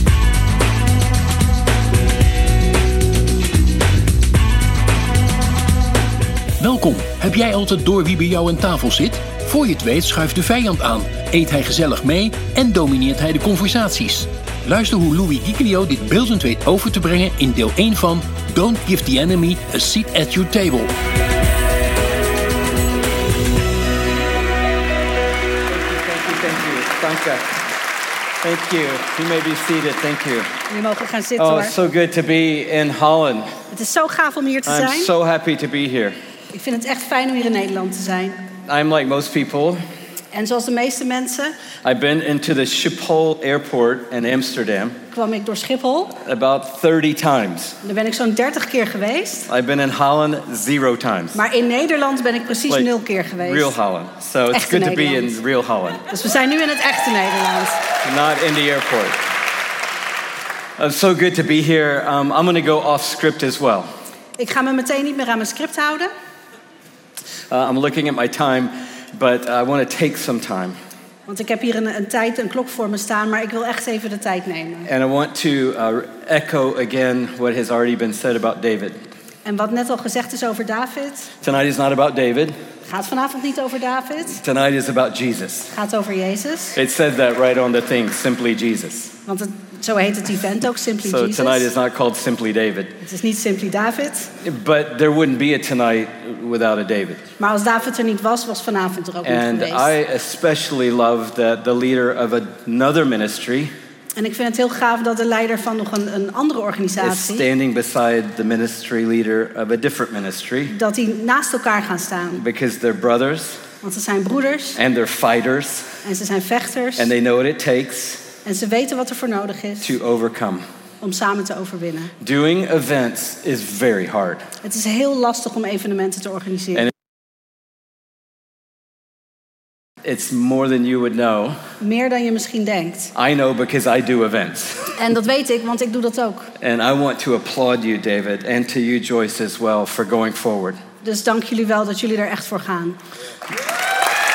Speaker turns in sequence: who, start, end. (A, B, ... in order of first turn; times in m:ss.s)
0:06.6-0:20.9 A
0:25.7-0:27.6 B
0:28.4-0:30.5 B
0:30.7-0:31.8 C
0:31.4-0:33.5 B
0:33.7-0:35.1 C
0:34.7-0:36.2 B
0:36.5-0:38.5 C
0:38.7-0:39.8 B
0:40.3-0:41.6 C
0:41.8-0:45.0 B
0:45.1-0:46.2 C
0:46.1-0:47.8 B
0:47.8-0:49.5 C
0:49.5-0:51.4 B
0:51.4-0:53.8 C
0:53.4-0:56.0 B
0:54.5-0:55.4 C
0:56.1-0:57.9 C
0:58.0-0:59.2 B
1:00.8-1:03.9 B
1:04.4-1:06.1 C
1:07.5-1:10.8 B
1:11.3-1:14.9 C
1:14.9-1:19.0 B
1:19.4-1:21.3 C
1:21.4-1:22.6 B
1:22.9-1:24.4 C
1:24.3-1:25.7 B
1:25.7-1:26.8 C
1:26.8-1:29.2 B
1:29.3-1:31.7 C
1:31.0-1:33.0 B
1:33.0-1:34.3 C
1:34.4-1:37.2 B
1:37.4-1:39.9 C
1:39.2-1:43.7 B
1:44.2-1:47.5 C
1:47.0-1:50.7 B
1:50.7-1:52.4 C
1:52.4-1:53.6 B
1:53.8-1:54.8 C
1:54.8-1:56.0 B
1:56.0-1:57.1 C
1:57.0-1:58.3 B
1:58.4-1:59.9 C
1:59.8-2:00.6 B
2:01.0-2:02.1 C
2:02.2-2:04.5 B
2:04.6-2:06.9 C
2:10.0-2:11.6 B
2:11.8-2:13.1 C
2:13.2-2:14.9 B
2:15.0-2:16.5 C
2:16.6-2:20.8 B
2:21.0-2:23.0 C